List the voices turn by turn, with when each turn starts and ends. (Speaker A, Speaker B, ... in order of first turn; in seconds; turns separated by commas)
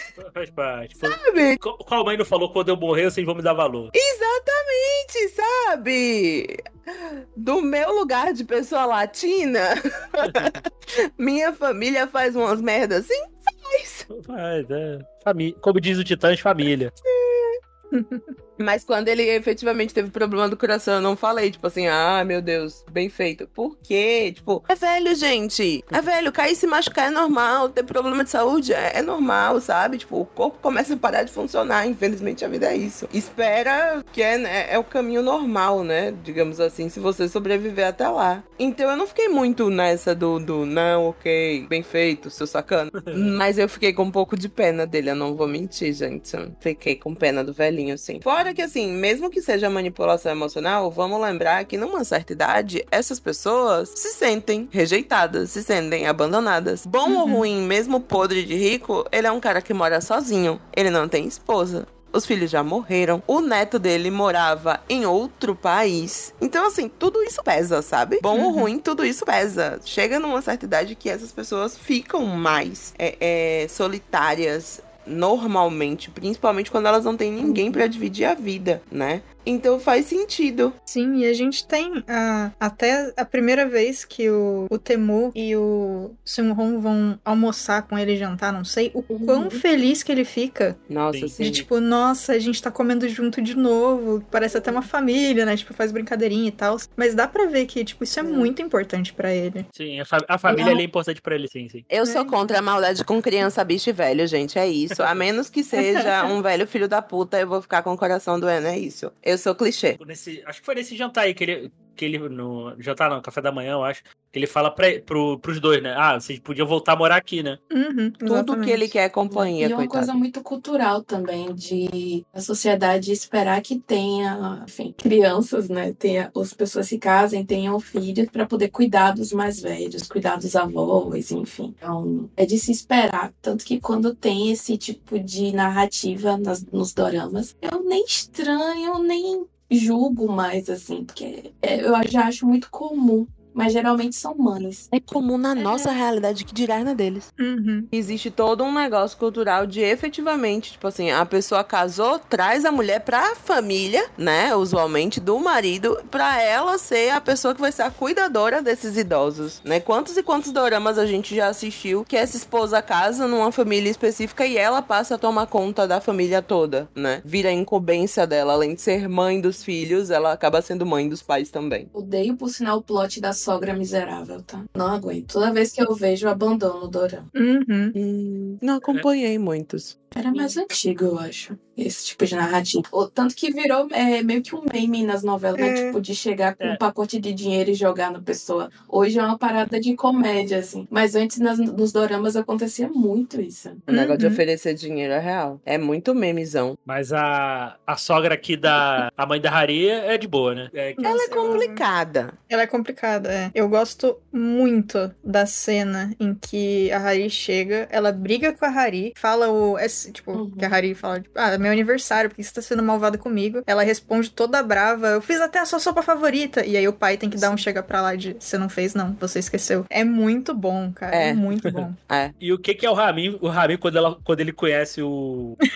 Speaker A: 0.1-3.9, Speaker B: 1.0-1.6, Speaker B: 3.9-14.1, Speaker A: 10.2-10.6, Speaker A: 14.1-16.9, Speaker B: 17.0-17.6, Speaker C: 17.9-18.3, Speaker B: 18.6-80.7, Speaker A: 43.0-43.3, Speaker C: 57.1-57.5, Speaker C: 68.3-68.7, Speaker D: 77.4-77.8, Speaker C: 80.9-90.8, Speaker D: 89.1-89.6, Speaker B: 90.9-91.7, Speaker A: 91.1-91.6, Speaker C: 91.4-99.7, Speaker D: 98.2-98.5, Speaker A: 99.7-101.8, Speaker D: 100.5-100.8, Speaker B: 101.9-110.0, Speaker C: 102.0-102.3, Speaker C: 105.7-106.1, Speaker A: 110.0-117.6, Speaker C: 117.7-118.9, Speaker B: 118.2-120.1, Speaker D: 119.3-144.9, Speaker B: 144.9-147.3, Speaker C: 145.6-145.9, Speaker C: 147.4-147.9, Speaker B: 147.9-171.9, Speaker D: 171.9-177.3, Speaker C: 177.3-177.9, Speaker B: 177.9-180.6, Speaker D: 180.1-193.9, Speaker C: 185.6-186.0, Speaker B: 193.9-196.8, Speaker C: 193.9-194.4, Speaker A: 196.8-201.6, Speaker C: 201.0-201.8, Speaker B: 201.0-202.3, Speaker C: 202.5-222.0, Speaker D: 210.3-210.8, Speaker D: 217.3-217.6, Speaker B: 221.1-221.4, Speaker B: 222.0-222.3, Speaker A: 222.4-225.6